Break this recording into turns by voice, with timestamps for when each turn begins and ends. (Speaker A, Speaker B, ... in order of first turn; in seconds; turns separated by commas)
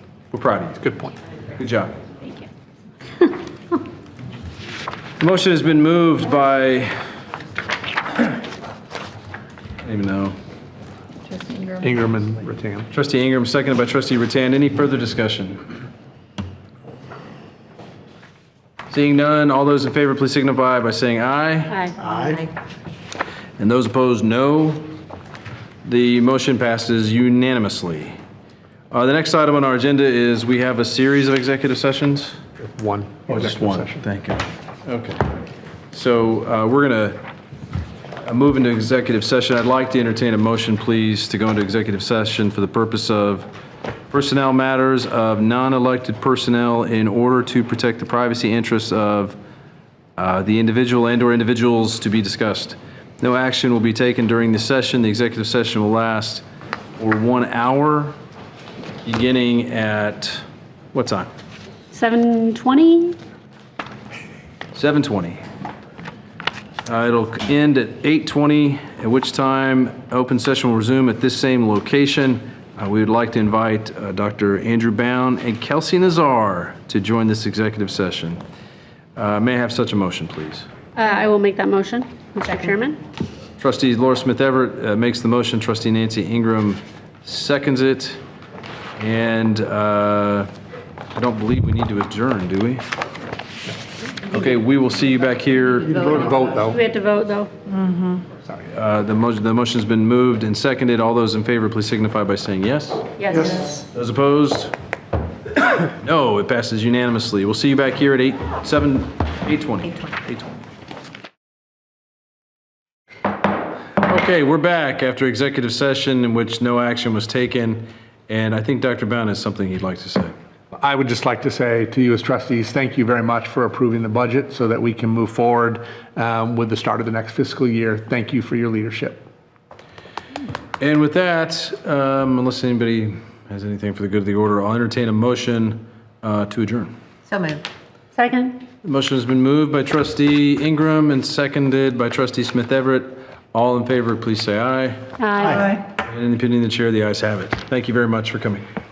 Speaker A: 0.3-0.8, Speaker B: 0.8-1.1, Speaker A: 1.5-2.0, Speaker A: 5.2-7.0, Speaker A: 9.8-10.3, Speaker C: 11.2-11.9, Speaker B: 11.8-12.9, Speaker A: 12.9-15.6, Speaker A: 18.9-21.9, Speaker D: 21.7-21.9, Speaker B: 22.0-22.4, Speaker C: 22.0-22.5, Speaker A: 23.6-24.8, Speaker A: 25.8-28.1, Speaker A: 28.9-32.4, Speaker B: 32.6-34.0, Speaker A: 33.3-35.3, Speaker A: 35.9-37.2, Speaker A: 38.2-43.5, Speaker A: 44.1-49.4, Speaker A: 50.2-56.4, Speaker A: 57.0-58.1, Speaker A: 59.0-61.3, Speaker D: 61.9-63.2, Speaker A: 64.7-65.4, Speaker A: 66.8-78.4, Speaker A: 79.2-80.7, Speaker D: 81.0-83.0, Speaker A: 83.6-88.2, Speaker A: 89.0-90.5, Speaker A: 91.1-92.8, Speaker A: 94.2-96.2, Speaker B: 95.9-96.8, Speaker C: 96.1-96.5, Speaker D: 96.6-97.5, Speaker C: 97.7-98.2, Speaker A: 98.7-103.1, Speaker D: 103.2-103.6, Speaker B: 103.3-103.8, Speaker A: 103.7-104.7, Speaker A: 105.6-110.5, Speaker A: 114.0-120.3, Speaker B: 120.7-129.2, Speaker A: 130.8-136.9, Speaker C: 137.3-137.6, Speaker D: 138.1-138.6, Speaker A: 138.8-145.1, Speaker D: 145.2-145.7, Speaker C: 145.4-145.8, Speaker A: 145.9-148.6